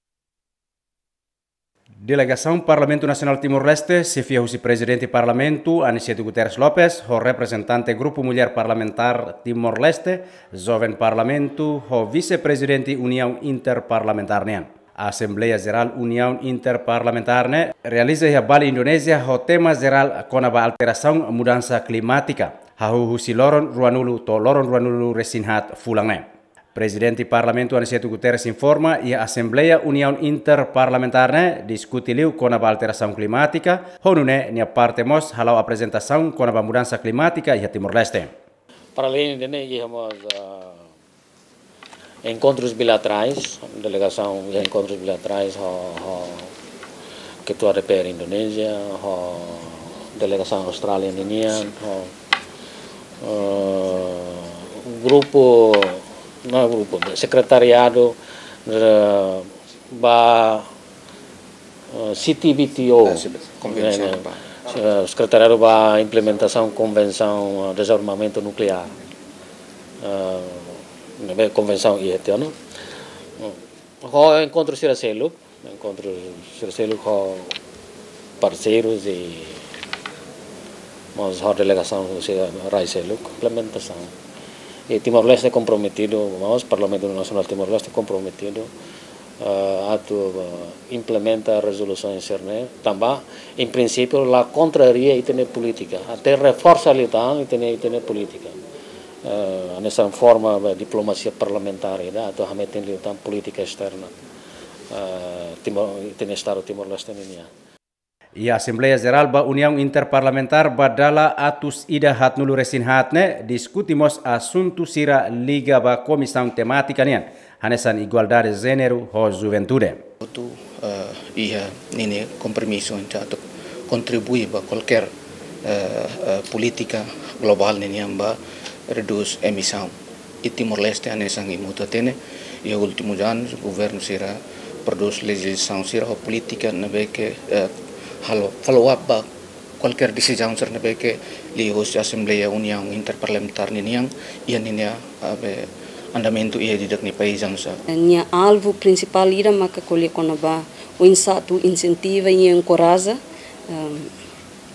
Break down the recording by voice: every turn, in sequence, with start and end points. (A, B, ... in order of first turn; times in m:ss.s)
0:02.0-0:38.3 A
0:39.0-0:40.8 B
0:42.2-0:46.5 B
0:47.5-0:52.1 B
0:53.2-0:58.2 B
0:58.7-1:00.7 B
1:01.9-1:08.9 B
1:03.0-1:04.5 C
1:10.0-1:12.5 B
1:13.4-1:17.5 B
1:18.4-1:19.6 B
1:21.2-1:24.1 B
1:24.9-1:28.7 B
1:29.4-1:38.6 B
1:39.2-1:44.1 B
1:44.9-1:47.5 B
1:48.4-2:00.0 A
2:00.2-2:05.1 C
2:05.6-2:08.4 C
2:08.9-2:09.9 C
2:10.4-2:17.7 C
2:18.2-2:19.3 C
2:19.8-2:27.8 C
2:28.0-2:33.2 D
2:33.7-2:34.1 D